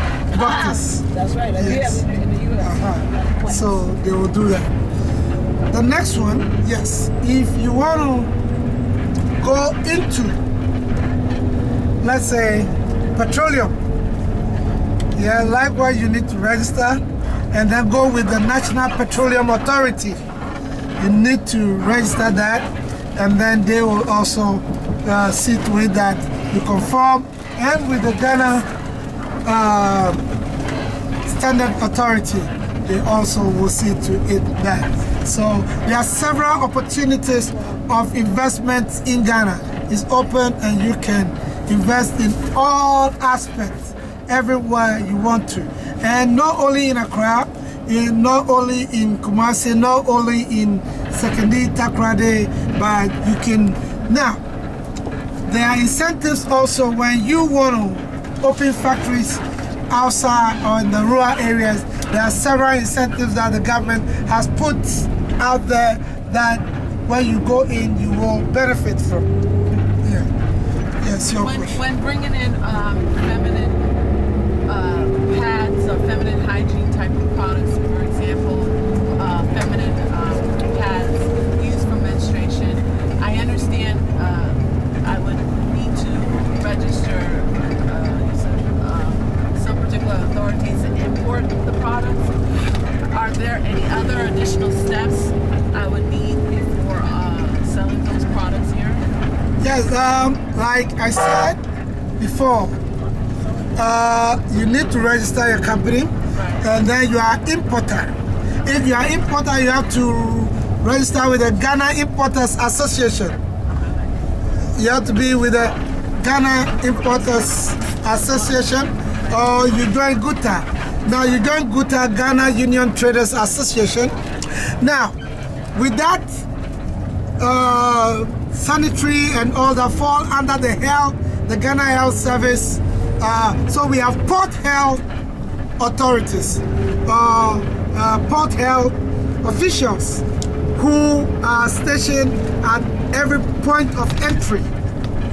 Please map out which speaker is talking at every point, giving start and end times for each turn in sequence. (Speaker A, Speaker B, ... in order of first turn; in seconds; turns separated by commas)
Speaker A: 0.3-1.0, Speaker B: 0.3-3.8, Speaker A: 1.6-2.0, Speaker A: 2.6-4.7, Speaker A: 5.7-8.3, Speaker A: 9.4-10.4, Speaker A: 12.0-13.8, Speaker A: 15.1-20.2, Speaker A: 21.0-28.7, Speaker A: 29.4-30.2, Speaker A: 31.2-54.4, Speaker A: 55.5-69.3, Speaker A: 71.0-71.8, Speaker C: 71.4-73.8, Speaker C: 74.7-92.3, Speaker C: 93.1-99.0, Speaker A: 99.6-101.6, Speaker A: 102.2-102.8, Speaker A: 103.8-113.4, Speaker C: 106.3-106.7, Speaker C: 113.7-114.1, Speaker A: 114.8-124.2, Speaker A: 124.7-125.1, Speaker A: 125.7-126.4, Speaker A: 127.4-135.0, Speaker A: 135.8-140.2, Speaker A: 140.7-144.7